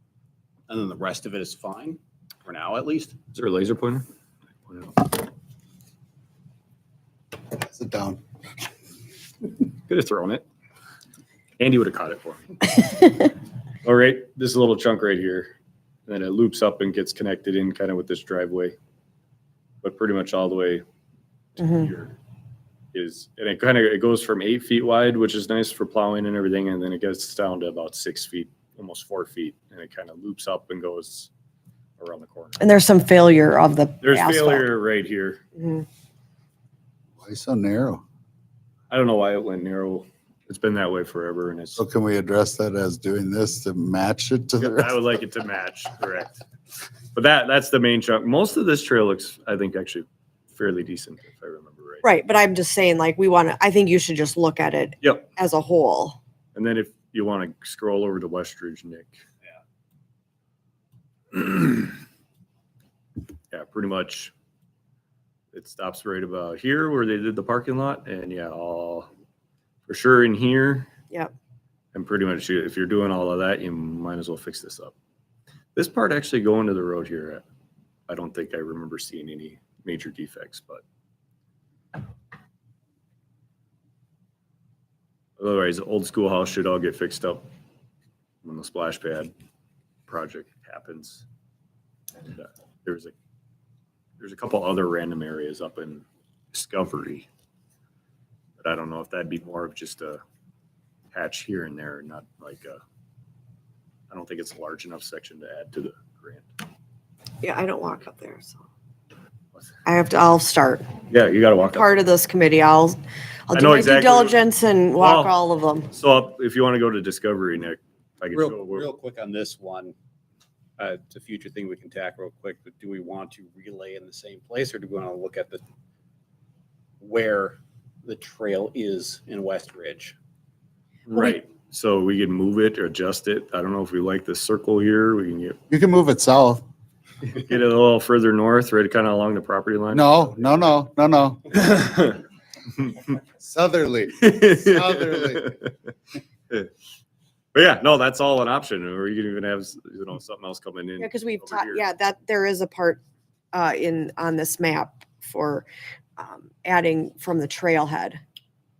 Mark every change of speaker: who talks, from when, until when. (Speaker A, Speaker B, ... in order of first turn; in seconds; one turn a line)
Speaker A: 0.7-3.2
Speaker B: 3.3-4.0
Speaker B: 4.7-5.2
Speaker C: 7.5-8.2
Speaker B: 9.9-10.4
Speaker B: 11.6-13.2
Speaker B: 13.8-15.5
Speaker B: 16.1-18.7
Speaker B: 19.8-20.8
Speaker B: 21.6-22.1
Speaker D: 21.6-21.9
Speaker B: 22.9-31.3
Speaker B: 32.0-32.6
Speaker D: 32.6-34.7
Speaker B: 34.0-35.4
Speaker D: 35.6-35.9
Speaker C: 37.2-38.0
Speaker B: 38.9-41.8
Speaker C: 41.8-45.0
Speaker B: 44.6-46.4
Speaker B: 47.1-52.0
Speaker D: 52.0-56.2
Speaker B: 55.0-55.3
Speaker B: 56.5-59.2
Speaker B: 61.3-61.9
Speaker B: 63.5-64.3
Speaker B: 65.5-69.1
Speaker B: 69.9-70.9
Speaker B: 71.9-74.9
Speaker B: 75.8-77.4
Speaker B: 78.1-80.8
Speaker B: 85.4-87.5
Speaker B: 88.4-89.3
Speaker B: 90.1-91.2
Speaker B: 92.3-93.1
Speaker B: 94.2-97.3
Speaker B: 98.6-100.2
Speaker B: 101.1-102.8
Speaker B: 104.1-106.5
Speaker D: 107.4-108.6
Speaker D: 109.8-110.9
Speaker B: 111.1-111.9
Speaker D: 111.7-113.0
Speaker D: 113.5-115.9
Speaker B: 113.5-114.4
Speaker B: 115.0-115.3
Speaker B: 115.9-118.9
Speaker A: 118.3-119.9
Speaker A: 120.8-125.6
Speaker A: 127.0-130.2
Speaker B: 131.1-135.6
Speaker C: 135.7-136.6
Speaker B: 137.2-140.6
Speaker C: 139.9-141.6
Speaker B: 141.5-142.2
Speaker C: 143.3-145.5
Speaker B: 144.2-145.7
Speaker B: 147.5-151.8
Speaker D: 151.0-153.0
Speaker D: 153.5-158.2